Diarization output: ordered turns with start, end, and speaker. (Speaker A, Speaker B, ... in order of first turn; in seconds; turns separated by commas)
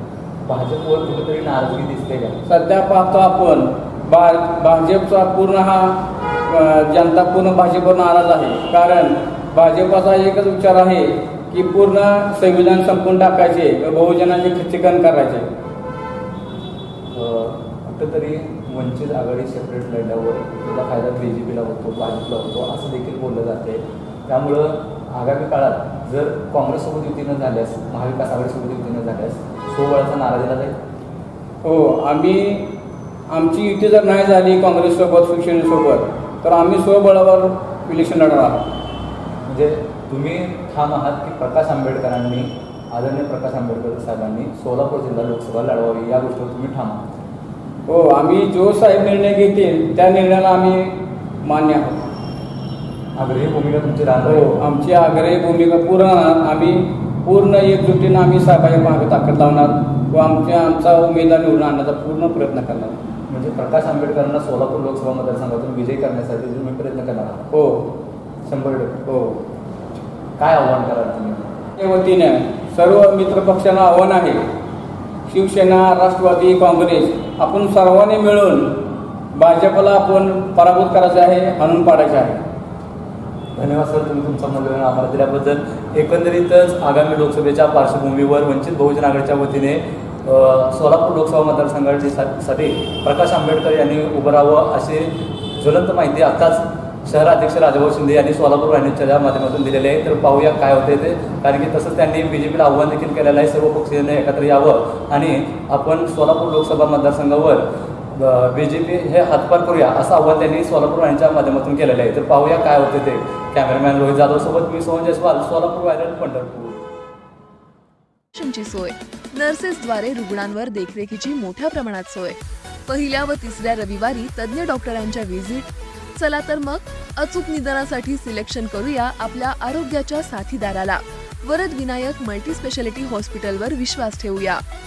Speaker A: 0.4-2.4, Speaker B: 2.5-15.5, Speaker A: 17.1-30.8, Speaker B: 31.6-32.8, Speaker B: 33.3-38.7, Speaker A: 39.5-47.1, Speaker B: 47.9-52.1, Speaker A: 53.1-54.5, Speaker B: 54.2-63.0, Speaker A: 63.3-67.5, Speaker B: 67.5-67.9, Speaker A: 68.4-69.0, Speaker B: 69.1-69.4, Speaker A: 70.4-71.5, Speaker B: 71.8-74.4, Speaker B: 75.3-82.4, Speaker A: 83.5-107.6, Speaker A: 108.1-116.8, Speaker C: 118.3-134.6